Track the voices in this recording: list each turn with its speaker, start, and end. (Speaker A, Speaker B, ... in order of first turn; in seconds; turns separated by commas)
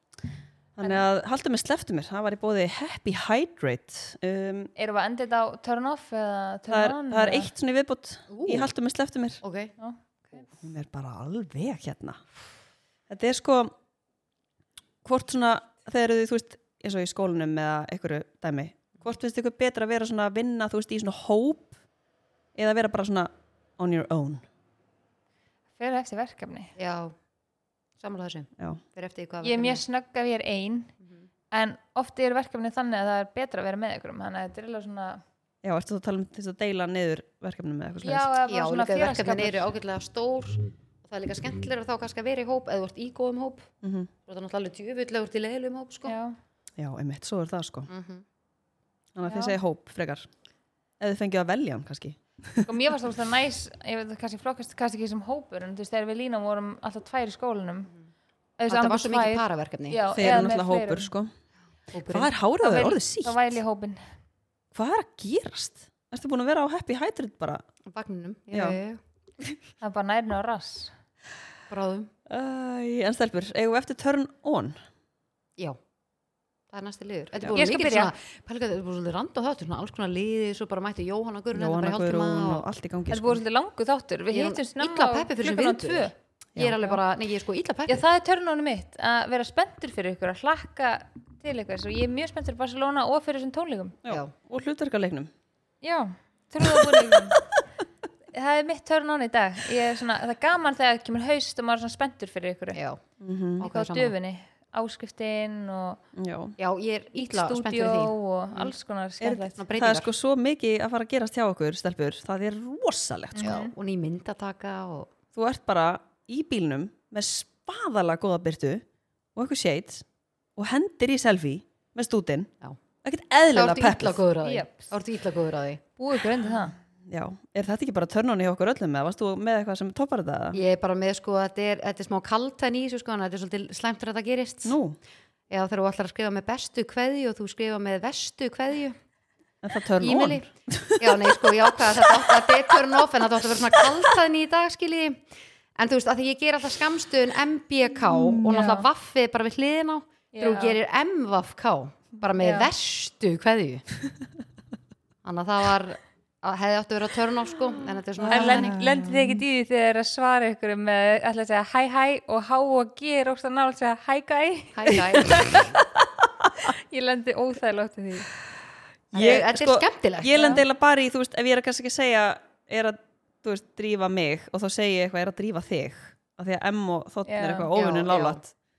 Speaker A: 0.8-4.7, Speaker B: 4.8-7.5, Speaker A: 6.7-9.4, Speaker C: 8.3-8.7, Speaker C: 9.4-9.7, Speaker B: 9.8-10.5, Speaker A: 10.6-12.2, Speaker A: 13.1-13.7, Speaker A: 15.0-21.7, Speaker A: 22.5-24.4, Speaker B: 25.8-26.7, Speaker C: 26.8-27.1, Speaker C: 28.0-29.8, Speaker B: 29.4-30.9, Speaker C: 31.0-31.3, Speaker B: 31.5-35.2, Speaker A: 35.6-38.3, Speaker B: 38.0-39.7, Speaker C: 38.4-43.7, Speaker A: 43.8-44.1, Speaker C: 44.3-46.1, Speaker B: 46.0-46.4, Speaker A: 46.8-47.9, Speaker C: 47.9-48.2, Speaker A: 49.1-50.3, Speaker B: 49.2-49.6, Speaker A: 51.0-52.7, Speaker B: 52.6-57.9, Speaker B: 58.6-61.1, Speaker C: 58.7-60.0, Speaker A: 60.1-61.3, Speaker C: 61.9-62.3, Speaker A: 62.1-63.4, Speaker B: 62.6-64.0, Speaker A: 64.7-67.6, Speaker C: 67.8-69.0, Speaker A: 68.5-68.8, Speaker B: 69.8-70.9, Speaker C: 71.7-72.1, Speaker A: 72.3-74.8, Speaker C: 76.7-82.7, Speaker B: 77.5-78.1, Speaker A: 81.5-83.4, Speaker B: 83.1-86.1, Speaker C: 84.3-88.0, Speaker B: 87.9-94.0, Speaker A: 94.0-95.3, Speaker C: 94.1-94.3, Speaker B: 95.8-97.4, Speaker A: 97.0-97.4, Speaker B: 98.3-102.8, Speaker C: 102.7-103.0, Speaker A: 103.2-103.7, Speaker C: 103.6-104.1, Speaker B: 103.6-106.0, Speaker A: 106.1-106.5, Speaker C: 106.6-108.7, Speaker B: 107.1-109.6, Speaker A: 109.2-113.5, Speaker C: 109.5-110.1, Speaker B: 113.3-113.7, Speaker C: 113.4-115.1, Speaker A: 115.3-118.8, Speaker A: 119.3-120.0, Speaker A: 120.5-122.5, Speaker A: 123.0-124.2, Speaker C: 123.5-125.8, Speaker B: 124.4-124.9, Speaker B: 126.0-126.8, Speaker A: 127.1-130.6, Speaker C: 130.5-134.8, Speaker A: 134.6-135.0, Speaker C: 135.5-138.9, Speaker A: 139.6-142.4, Speaker C: 140.0-140.5, Speaker C: 141.0-145.2, Speaker A: 143.8-144.1, Speaker C: 145.8-153.8, Speaker B: 148.5-148.9, Speaker B: 150.3-150.8, Speaker B: 152.4-152.7, Speaker C: 155.2-158.8, Speaker B: 158.2-165.7, Speaker A: 158.3-159.4, Speaker C: 164.7-165.8, Speaker A: 165.0-165.8, Speaker B: 166.7-168.3, Speaker A: 169.1-178.5, Speaker C: 169.1-170.6, Speaker B: 177.2-177.7, Speaker C: 177.7-178.4